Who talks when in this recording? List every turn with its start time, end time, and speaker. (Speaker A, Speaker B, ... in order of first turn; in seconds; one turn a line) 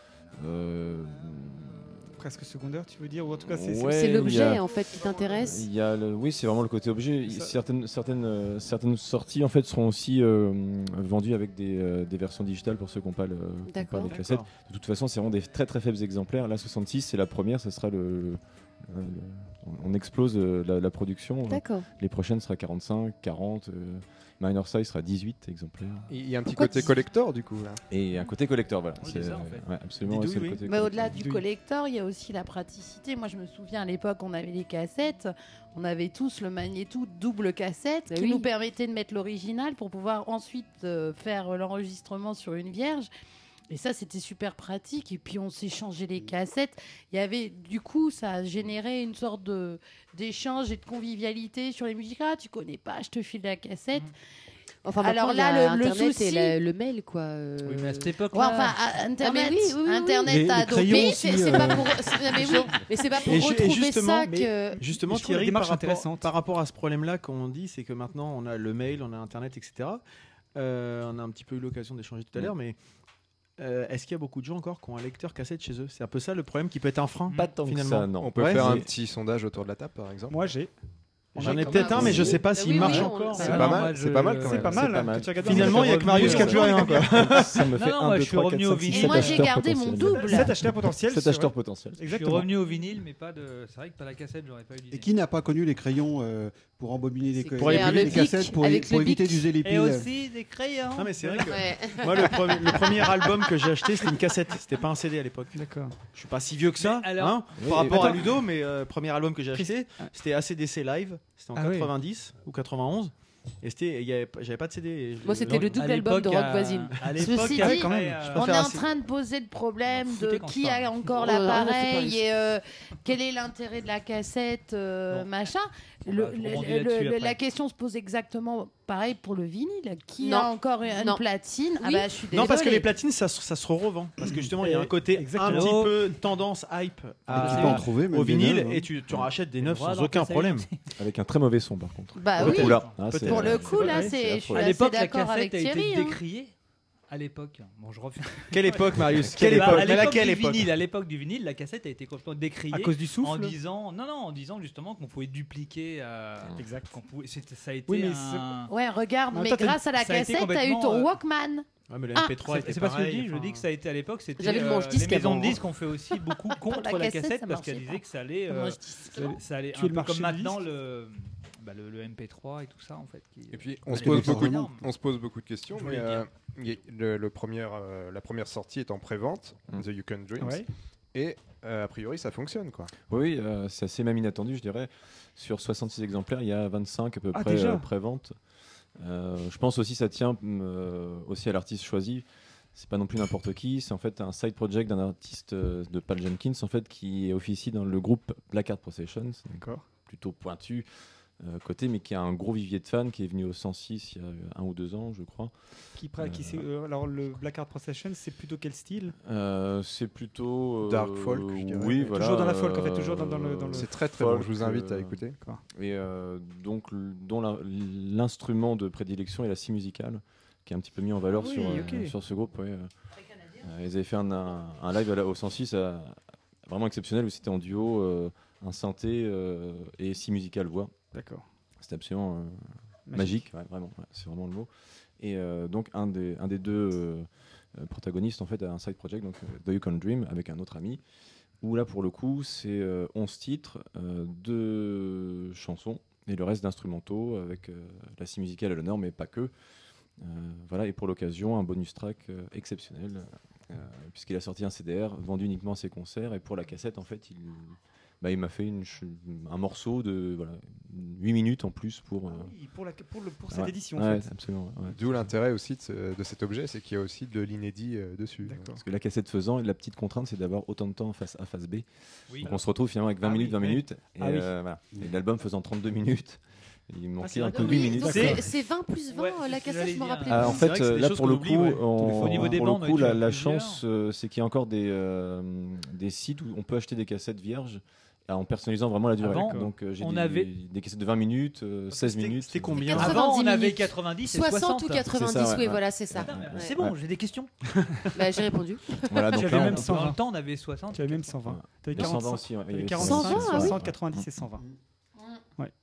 Speaker A: 0.4-1.9
Speaker B: 2.2-4.4
Speaker A: 3.4-4.7
Speaker C: 3.9-5.7
Speaker A: 5.4-26.1
Speaker B: 7.3-7.6
Speaker C: 13.7-14.2
Speaker D: 14.0-14.5
Speaker C: 21.5-21.9
Speaker E: 26.1-27.8
Speaker C: 26.5-27.0
Speaker A: 27.9-31.2
Speaker F: 29.0-29.7
Speaker B: 30.1-30.6
Speaker G: 30.6-43.1
Speaker B: 31.1-31.4
Speaker C: 38.1-38.5
Speaker G: 43.7-54.1
Speaker C: 54.8-58.1
Speaker G: 55.0-56.6
Speaker F: 57.6-58.8
Speaker G: 58.3-62.9
Speaker C: 59.2-64.8
Speaker H: 60.2-62.1
Speaker D: 63.2-70.0
Speaker B: 64.3-66.3
Speaker D: 70.5-72.8
Speaker D: 73.6-78.8
Speaker A: 77.3-78.9
Speaker E: 78.2-80.5
Speaker B: 80.3-80.7
Speaker D: 81.3-83.7
Speaker C: 81.4-83.9
Speaker B: 81.4-82.0
Speaker A: 81.9-82.4
Speaker B: 82.8-83.8
Speaker F: 83.4-84.9
Speaker E: 83.4-85.0
Speaker B: 84.4-87.2
Speaker A: 84.8-92.1
Speaker D: 85.4-87.7
Speaker F: 85.7-86.7
Speaker F: 87.7-89.5
Speaker G: 88.9-90.6
Speaker B: 90.2-92.5
Speaker F: 92.1-95.1
Speaker H: 94.9-100.1
Speaker C: 97.3-99.5
Speaker D: 97.6-98.3
Speaker F: 99.6-101.8
Speaker D: 101.0-105.6
Speaker C: 101.4-103.2
Speaker B: 105.5-105.9
Speaker D: 106.1-115.9
Speaker F: 106.8-108.0
Speaker A: 107.6-108.4
Speaker B: 109.5-110.1
Speaker B: 111.5-111.9
Speaker C: 115.2-117.0
Speaker F: 115.5-118.6
Speaker D: 117.2-118.9
Speaker G: 117.2-132.9
Speaker B: 117.6-118.4
Speaker F: 119.9-121.1
Speaker C: 121.1-122.2
Speaker F: 126.1-127.4
Speaker C: 130.2-131.2
Speaker C: 131.8-132.5
Speaker D: 132.3-140.7
Speaker B: 134.2-135.8
Speaker F: 135.4-136.1
Speaker F: 137.3-137.9
Speaker H: 137.3-138.9
Speaker F: 139.6-140.8
Speaker A: 141.0-144.7
Speaker G: 142.2-146.2
Speaker F: 142.4-142.9
Speaker D: 142.9-143.7
Speaker B: 143.7-144.1
Speaker F: 144.5-146.5
Speaker F: 147.1-158.7
Speaker D: 148.5-150.8
Speaker A: 149.1-150.1
Speaker B: 152.7-153.6
Speaker B: 156.6-157.0
Speaker B: 157.9-158.5
Speaker G: 158.7-162.4
Speaker B: 159.3-159.8
Speaker F: 159.9-161.1
Speaker D: 161.9-163.6
Speaker F: 162.5-174.9
Speaker C: 164.4-165.7
Speaker G: 166.5-169.4
Speaker B: 169.1-170.6
Speaker E: 173.5-182.9
Speaker F: 175.8-176.2
Speaker B: 180.4-180.7
Speaker A: 183.1-188.3
Speaker B: 187.3-187.9
Speaker A: 189.0-200.9
Speaker B: 199.6-199.8
Speaker A: 201.4-205.5
Speaker B: 206.0-209.2
Speaker A: 206.2-206.6
Speaker A: 209.2-215.2
Speaker E: 210.8-212.2
Speaker B: 212.1-213.9
Speaker E: 213.7-215.4
Speaker A: 215.8-222.9
Speaker B: 221.4-222.1
Speaker A: 223.6-230.9
Speaker B: 231.1-231.4
Speaker A: 231.8-234.7
Speaker B: 233.1-233.5
Speaker A: 235.2-241.0
Speaker A: 241.6-249.5
Speaker A: 250.2-262.5
Speaker B: 262.2-264.3
Speaker A: 263.5-265.0
Speaker E: 264.9-268.7
Speaker B: 268.4-268.8
Speaker A: 268.8-278.4
Speaker B: 274.2-274.5
Speaker D: 277.2-278.1
Speaker C: 277.4-280.7
Speaker B: 278.0-278.4
Speaker F: 278.0-278.4
Speaker F: 279.1-280.6
Speaker A: 280.3-293.1
Speaker D: 280.4-281.9
Speaker B: 282.0-282.6
Speaker F: 282.2-283.8
Speaker F: 289.2-290.5
Speaker B: 289.3-289.7
Speaker D: 291.9-293.3
Speaker C: 292.8-296.8
Speaker F: 292.9-295.1
Speaker A: 295.1-297.0
Speaker F: 296.1-297.5
Speaker D: 297.7-298.1
Speaker C: 298.1-299.6
Speaker A: 299.1-300.0
Speaker B: 299.3-300.2
Speaker F: 299.4-301.4
Speaker B: 300.9-304.6
Speaker A: 301.5-304.3
Speaker C: 303.0-303.8